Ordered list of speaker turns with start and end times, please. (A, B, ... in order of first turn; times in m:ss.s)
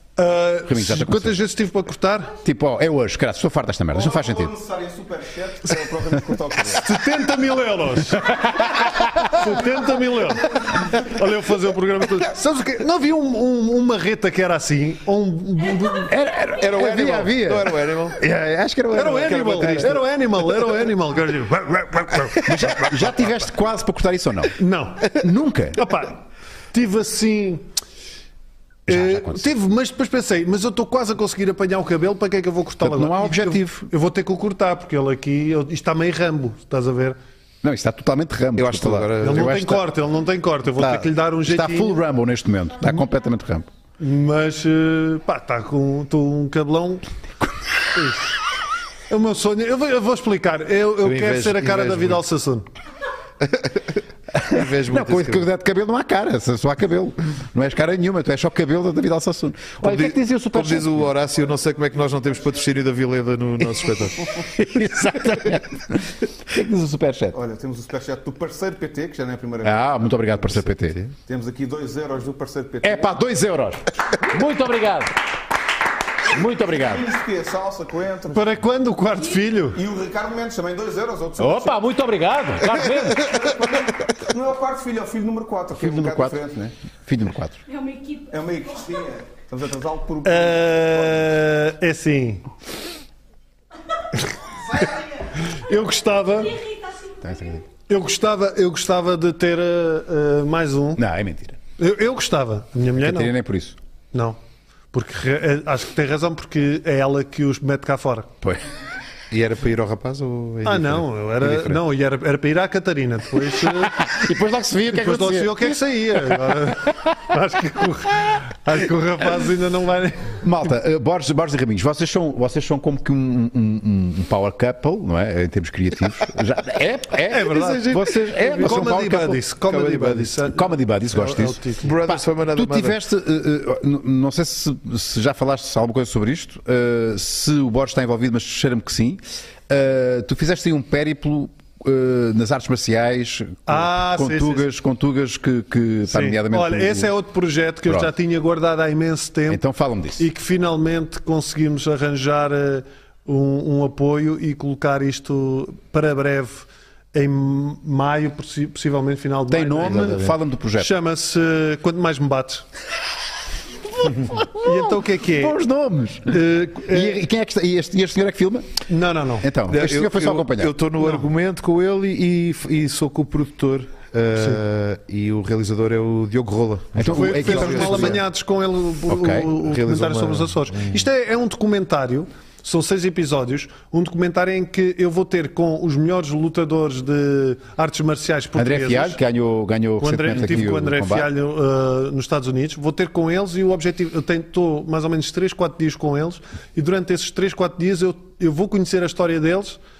0:00.2-0:02.3 A
0:00.7-0:01.4 B
0:02.4-0:04.5 B
0:03.9-0:06.9 C
0:06.7-0:16.1 A
0:08.7-0:09.2 B
0:15.9-0:19.9 B
0:16.6-0:18.2 D
0:18.9-0:22.7 A
0:19.1-0:20.0 D
0:22.4-0:24.6 B
0:24.6-0:25.2 A
0:25.1-0:25.9 B
0:25.7-0:26.2 A
0:26.7-0:27.6 A
0:28.9-0:37.2 A
0:28.9-0:29.4 B
0:32.8-0:33.9 B
0:37.6-0:39.9 B
0:38.6-0:39.6 D
0:39.2-0:42.0 A
0:40.8-0:43.7 B
0:44.0-0:47.0 A
0:48.0-0:48.2 A
0:49.1-0:52.7 A
0:51.0-0:52.2 D
0:53.4-0:53.8 D
0:54.4-1:01.0 B
0:54.4-0:55.5 D
0:59.8-1:04.5 D
1:04.4-1:07.4 B
1:07.3-1:10.3 C
1:09.6-1:11.0 B
1:10.5-1:11.2 D
1:11.3-1:13.1 C
1:12.8-1:15.2 B
1:16.3-1:17.1 B
1:16.8-1:18.5 C
1:18.3-1:19.8 A
1:19.7-1:21.8 C
1:21.4-1:23.4 B
1:23.2-1:26.7 C
1:25.8-1:26.4 B
1:27.0-1:27.6 B
1:27.7-1:28.4 E
1:28.3-1:31.3 C
1:30.2-1:32.4 A
1:34.8-1:36.6 A
1:36.4-1:37.6 E
1:37.2-1:37.6 B
1:37.9-1:41.0 A
1:41.0-1:41.6 B
1:41.8-1:43.3 A
1:43.0-1:43.8 B
1:44.1-1:44.4 A
1:44.9-1:48.3 A
1:49.3-1:51.7 D
1:50.6-1:54.1 A
1:53.8-1:56.8 B
1:54.9-2:00.4 A
2:00.4-2:09.4 B
2:07.3-2:11.9 A
2:07.4-2:10.4 D
2:10.5-2:27.1 B
2:11.8-2:13.0 D
2:23.7-2:24.6 A
2:26.1-2:29.6 A
2:29.5-2:30.3 B
2:30.2-2:42.6 A
2:39.5-2:40.9 B
2:40.0-2:40.3 D
2:44.0-2:48.7 B
2:44.3-2:45.6 A
2:46.3-2:47.2 A
2:48.9-2:49.5 A
2:49.4-2:50.7 B
2:49.7-2:58.2 D
2:57.0-2:58.2 B
2:57.1-3:09.2 A
2:59.1-2:59.5 B
2:59.6-3:00.9 D
3:08.6-3:11.3 B
3:10.0-3:19.8 A